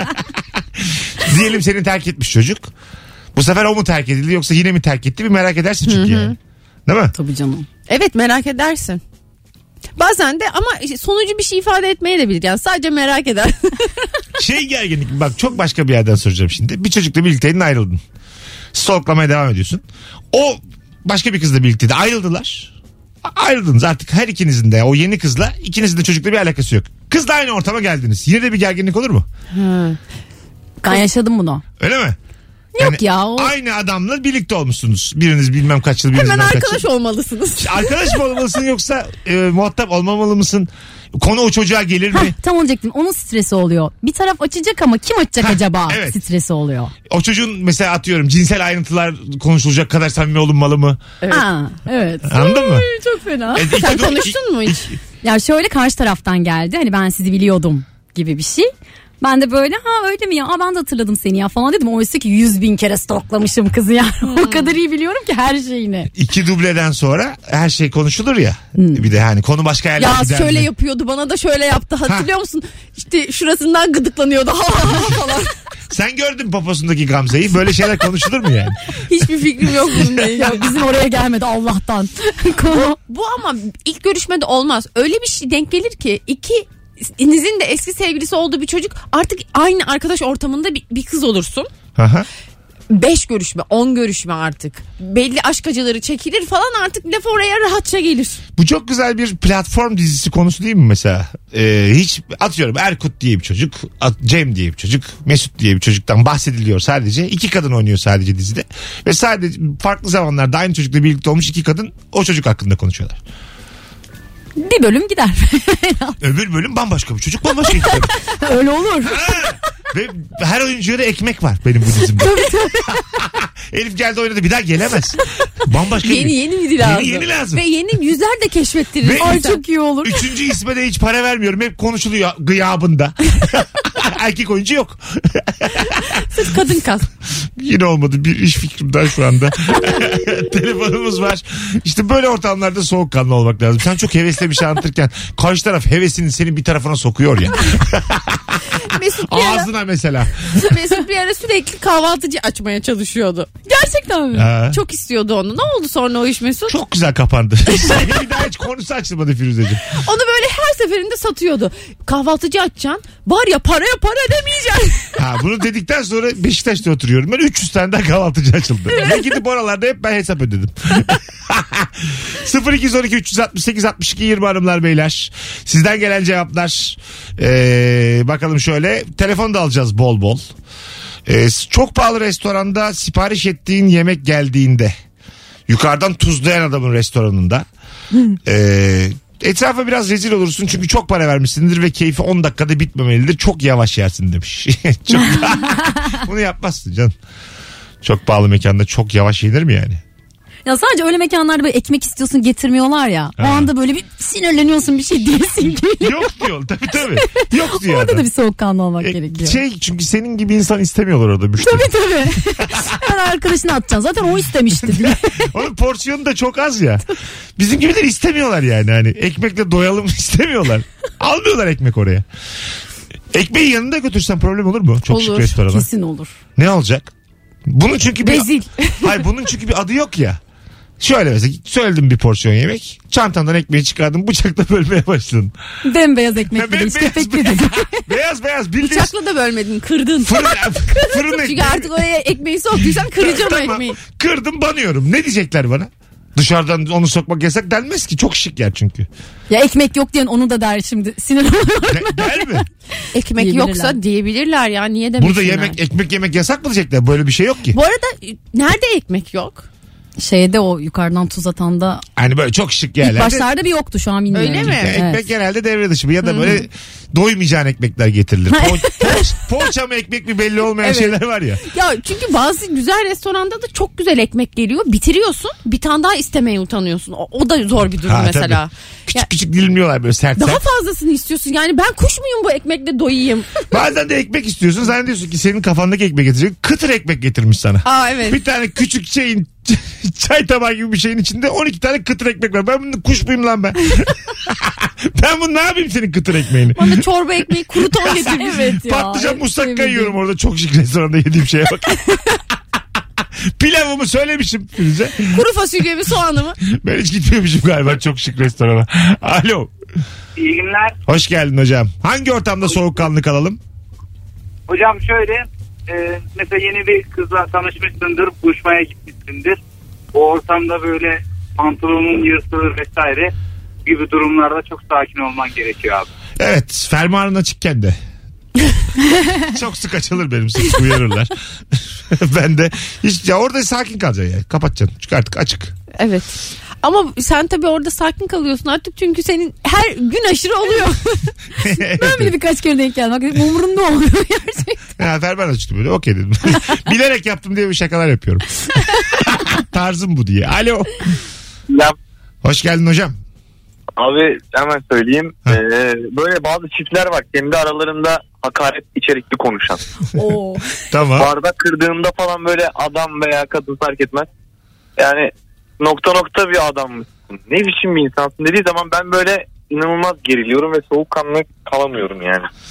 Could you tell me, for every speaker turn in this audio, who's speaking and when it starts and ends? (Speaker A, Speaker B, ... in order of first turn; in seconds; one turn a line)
Speaker A: 0.8-2.7
Speaker A: 3.3-7.1
Speaker B: 5.8-6.3
Speaker C: 7.1-7.7
Speaker B: 7.9-9.0
Speaker B: 10.0-14.1
Speaker A: 14.4-18.0
Speaker A: 18.7-22.7
Speaker A: 23.2-29.2
Speaker B: 29.5-30.0
Speaker C: 30.8-31.6
Speaker A: 31.8-32.2
Speaker C: 32.7-33.5
Speaker A: 32.8-36.8
Speaker B: 36.1-38.1
Speaker A: 37.6-42.3
Speaker C: 42.1-46.9
Speaker A: 45.4-46.2
Speaker A: 47.1-51.0
Speaker B: 51.2-51.5
Speaker C: 51.3-53.6
Speaker A: 52.2-52.9
Speaker B: 52.6-54.9
Speaker A: 53.5-55.0
Speaker C: 55.2-58.7
Speaker C: 59.2-66.1
Speaker B: 64.2-64.7
Speaker A: 66.1-70.7
Speaker C: 68.8-69.0
Speaker B: 70.0-75.5
Speaker A: 75.9-79.0
Speaker B: 79.0-80.7
Speaker C: 80.3-83.0
Speaker B: 82.7-91.7
Speaker A: 92.0-92.3
Speaker B: 92.9-98.4
Speaker A: 98.6-113.2
Speaker C: 114.6-116.2
Speaker A: 116.2-118.1
Speaker C: 117.8-119.2
Speaker A: 119.0-122.3
Speaker C: 122.2-123.0
Speaker A: 123.3-127.6
Speaker B: 126.0-129.6
Speaker A: 129.0-129.4
Speaker C: 129.2-130.2
Speaker A: 130.0-136.2
Speaker B: 135.8-137.1
Speaker A: 137.6-148.7
Speaker B: 148.8-149.7
Speaker A: 149.2-150.7
Speaker B: 150.5-153.7
Speaker C: 153.7-154.4
Speaker A: 154.3-154.8
Speaker B: 154.6-156.8
Speaker A: 156.7-159.8
Speaker B: 157.8-158.1
Speaker B: 159.9-165.2
Speaker A: 165.2-180.5
Speaker A: 181.2-184.9
Speaker A: 185.7-187.7
Speaker A: 188.4-197.1
Speaker A: 198.0-200.0
Speaker C: 200.6-206.2
Speaker A: 203.4-203.7
Speaker A: 206.0-208.2
Speaker C: 207.2-209.6
Speaker A: 209.0-211.9
Speaker C: 211.6-215.5
Speaker A: 214.8-222.2
Speaker A: 223.3-225.9
Speaker C: 225.1-226.3
Speaker A: 226.6-227.1
Speaker A: 227.7-228.5
Speaker B: 228.2-229.2
Speaker A: 229.0-230.4
Speaker A: 231.0-235.5
Speaker C: 235.8-238.0
Speaker A: 236.5-239.1
Speaker B: 238.8-244.0
Speaker A: 240.2-241.9
Speaker A: 242.8-249.1
Speaker C: 249.5-252.6
Speaker A: 251.9-252.6
Speaker B: 253.1-255.8
Speaker C: 253.4-254.0
Speaker A: 255.2-257.8
Speaker B: 257.7-259.6
Speaker C: 260.2-262.0
Speaker A: 262.2-263.5
Speaker C: 263.0-265.2
Speaker B: 264.3-265.0
Speaker A: 264.6-271.6
Speaker B: 266.2-266.6
Speaker C: 268.5-269.2
Speaker B: 270.8-279.2
Speaker A: 278.1-280.6
Speaker B: 280.4-283.7
Speaker A: 283.7-297.0
Speaker B: 287.9-288.4
Speaker B: 296.8-298.8
Speaker A: 297.7-302.2
Speaker C: 298.0-300.1
Speaker A: 303.6-305.4
Speaker B: 305.3-306.6
Speaker A: 306.6-309.7
Speaker D: 310.4-310.9
Speaker A: 311.1-313.6
Speaker D: 314.7-319.6
Speaker D: 320.1-323.3
Speaker D: 323.8-326.1
Speaker A: 326.4-328.0
Speaker A: 329.4-335.7
Speaker B: 336.0-341.3
Speaker A: 341.6-342.3
Speaker C: 342.0-344.8
Speaker A: 345.0-348.4
Speaker A: 349.2-351.1
Speaker A: 352.4-353.2
Speaker E: 354.0-359.8
Speaker C: 360.1-360.7
Speaker A: 360.9-361.3
Speaker E: 361.2-364.2
Speaker E: 365.0-365.3
Speaker E: 365.8-372.5